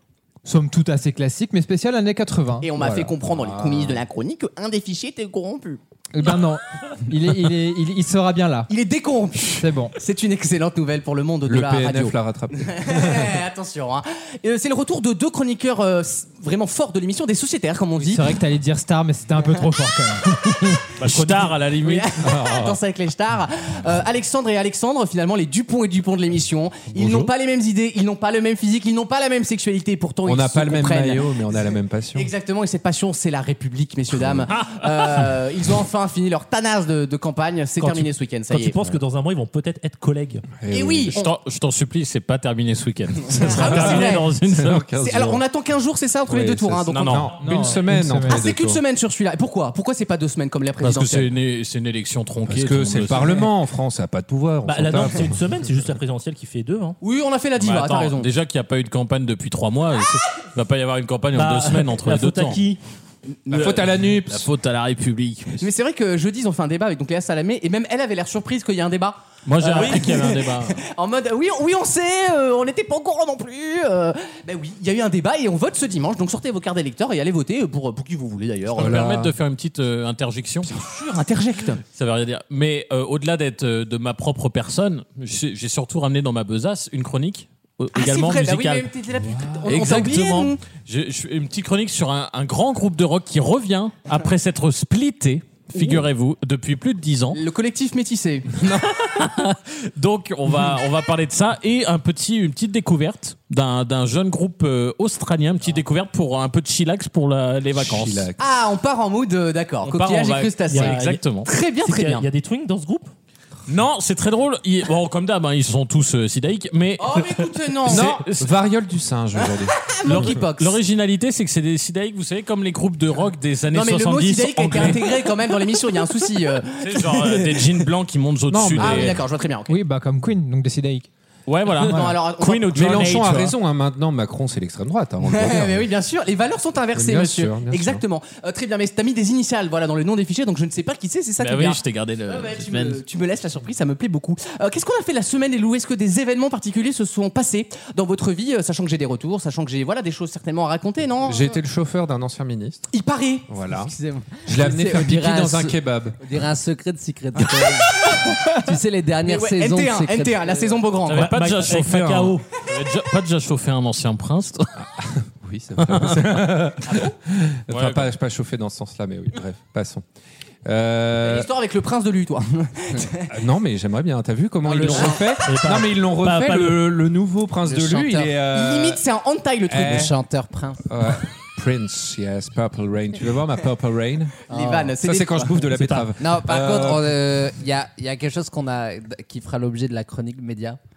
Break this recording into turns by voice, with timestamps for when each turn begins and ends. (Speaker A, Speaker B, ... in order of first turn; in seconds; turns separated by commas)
Speaker A: 0.5-3.1, Speaker B: 2.6-5.8, Speaker C: 2.8-4.0, Speaker A: 6.1-8.7, Speaker B: 8.7-18.3, Speaker A: 9.6-9.9, Speaker C: 11.5-13.4, Speaker A: 18.0-20.9, Speaker D: 21.0-22.1, Speaker B: 21.8-31.3, Speaker C: 22.2-22.8, Speaker C: 27.0-27.3, Speaker C: 30.2-32.3, Speaker B: 32.1-38.8, Speaker C: 34.1-34.5, Speaker E: 37.8-40.5, Speaker C: 40.6-41.1, Speaker B: 40.7-41.3, Speaker D: 41.1-44.9, Speaker B: 43.3-44.3, Speaker C: 43.5-45.4, Speaker B: 45.0-47.3, Speaker C: 46.3-48.8, Speaker D: 47.0-47.3, Speaker A: 47.4-48.4, Speaker B: 48.3-51.3, Speaker D: 50.8-53.5, Speaker C: 52.5-55.4, Speaker E: 54.6-57.0, Speaker B: 57.0-58.3, Speaker D: 57.6-62.7, Speaker E: 61.3-62.8, Speaker B: 63.5-63.8, Speaker C: 63.5-64.5, Speaker D: 63.6-65.7, Speaker B: 65.6-79.0, Speaker D: 69.5-70.8, Speaker E: 69.7-70.1, Speaker D: 78.8-80.7, Speaker C: 78.8-79.3, Speaker B: 80.7-81.8, Speaker D: 81.9-88.9, Speaker B: 88.0-90.6, Speaker C: 89.2-90.2, Speaker D: 89.7-97.4, Speaker B: 97.3-98.6, Speaker D: 98.6-108.3, Speaker C: 107.8-108.4, Speaker B: 108.4-112.3, Speaker D: 109.8-111.5, Speaker E: 110.7-113.1, Speaker D: 113.7-118.5, Speaker B: 117.0-118.1, Speaker C: 117.9-120.3, Speaker B: 119.4-120.8, Speaker D: 120.0-125.2, Speaker B: 123.7-127.8, Speaker D: 126.8-129.2, Speaker C: 128.5-129.2, Speaker B: 128.8-129.8, Speaker A: 129.7-131.1, Speaker D: 131.5-133.6, Speaker B: 131.8-133.3, Speaker C: 132.7-135.9, Speaker B: 135.2-151.5, Speaker C: 136.9-138.0, Speaker D: 141.4-143.0, Speaker C: 151.2-152.9, Speaker B: 152.9-153.5, Speaker C: 153.5-153.9, Speaker F: 153.7-160.8, Speaker C: 154.4-156.2, Speaker B: 158.0-158.6, Speaker B: 159.2-161.3, Speaker D: 161.1-164.7, Speaker E: 161.1-162.4, Speaker C: 164.8-170.1, Speaker D: 165.8-166.2, Speaker B: 166.9-167.2, Speaker D: 167.7-168.1, Speaker C: 170.7-171.5, Speaker B: 171.2-173.3, Speaker C: 173.3-179.0, Speaker F: 174.8-175.2, Speaker B: 174.9-175.2, Speaker E: 175.4-176.8, Speaker F: 177.7-178.4, Speaker B: 178.5-180.1, Speaker C: 179.7-180.1, Speaker F: 179.8-181.2, Speaker C: 180.9-184.4, Speaker F: 184.5-185.0, Speaker B: 184.5-185.7, Speaker C: 185.0-187.2, Speaker E: 185.7-186.1, Speaker F: 186.2-190.8